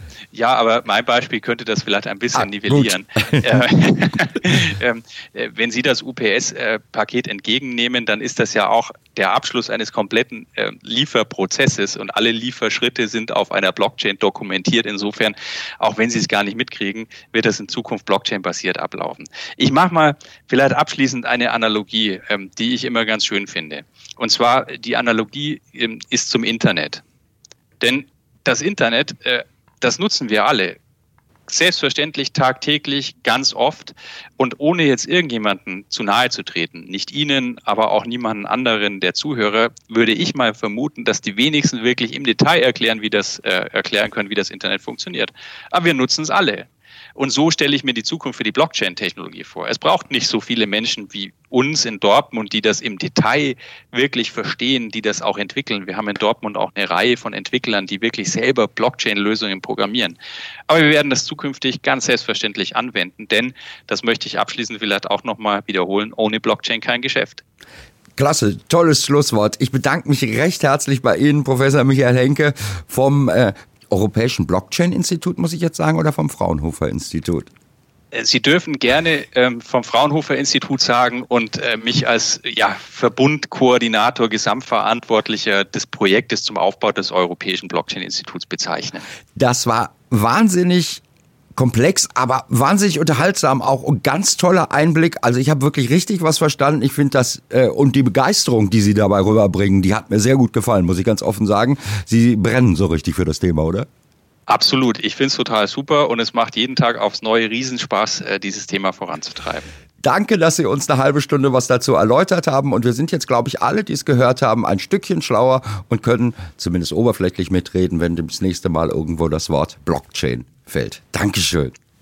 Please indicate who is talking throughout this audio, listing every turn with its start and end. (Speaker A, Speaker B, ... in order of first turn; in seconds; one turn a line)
Speaker A: 0.3-27.0
Speaker B: 2.4-3.6
Speaker A: 27.8-30.8
Speaker A: 31.5-60.2
Speaker A: 60.7-67.4
Speaker B: 68.2-77.5
Speaker A: 78.1-89.1
Speaker B: 89.3-91.0
Speaker B: 91.6-103.9
Speaker A: 104.5-109.7
Speaker B: 110.0-121.7